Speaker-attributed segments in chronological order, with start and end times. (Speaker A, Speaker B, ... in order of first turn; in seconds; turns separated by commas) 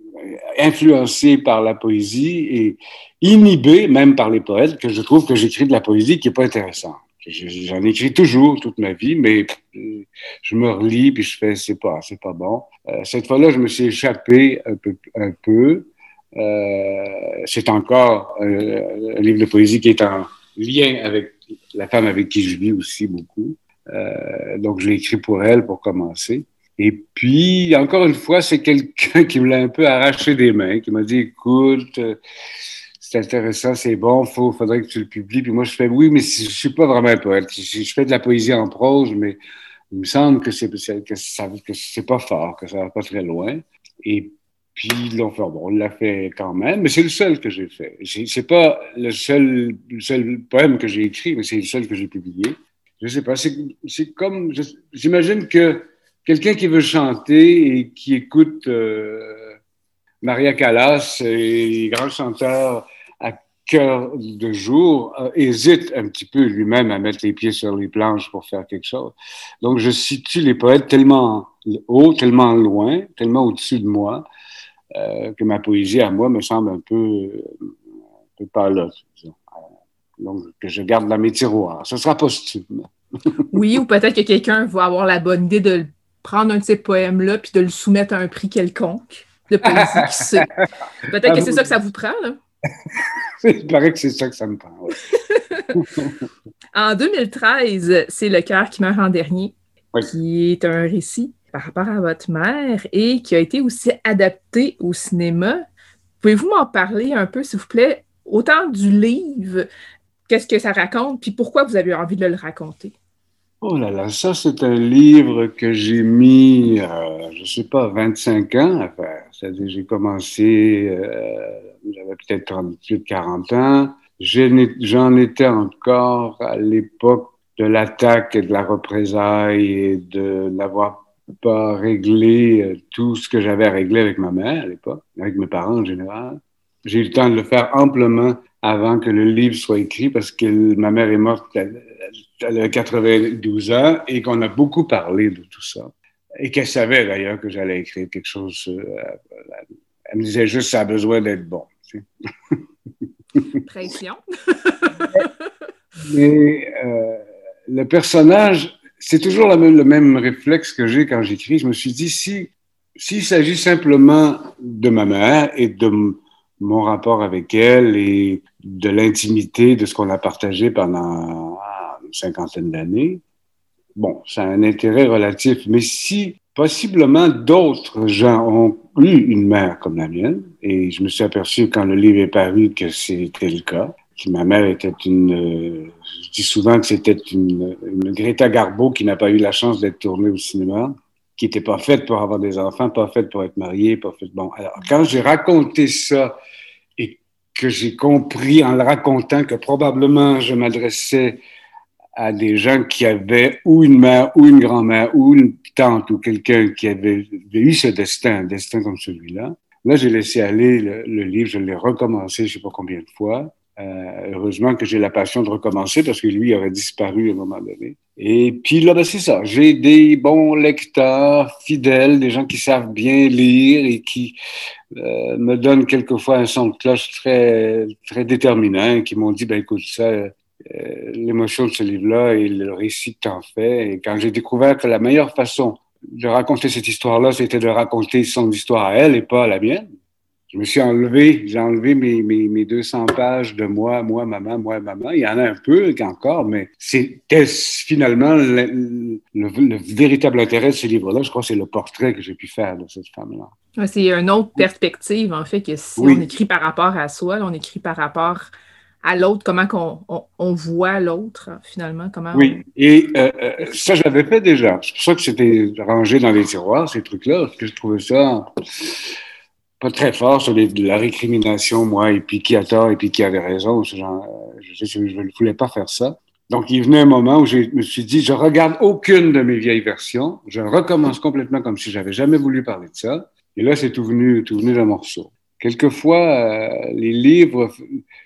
Speaker A: 0.2-32.2, Speaker A: 33.0-39.4, Speaker A: 39.9-59.5, Speaker A: 60.2-74.3, Speaker A: 74.9-77.5, Speaker A: 78.4-79.4, Speaker A: 80.2-83.5, Speaker B: 83.5-90.5, Speaker A: 89.6-90.7, Speaker B: 91.1-92.4, Speaker A: 91.2-91.7, Speaker A: 93.4-95.1, Speaker B: 95.3-95.8, Speaker A: 95.7-96.3, Speaker B: 96.7-99.5, Speaker B: 100.1-105.6, Speaker B: 106.2-109.7, Speaker B: 110.3-112.9, Speaker A: 113.6-152.6, Speaker B: 153.6-155.4, Speaker A: 156.0-173.2, Speaker A: 173.9-196.3, Speaker A: 197.0-201.4, Speaker A: 202.1-224.3, Speaker A: 224.9-239.9, Speaker A: 240.5-253.5, Speaker B: 253.8-258.5, Speaker A: 256.0-256.2, Speaker B: 259.0-262.6, Speaker A: 262.3-269.0, Speaker A: 269.8-288.0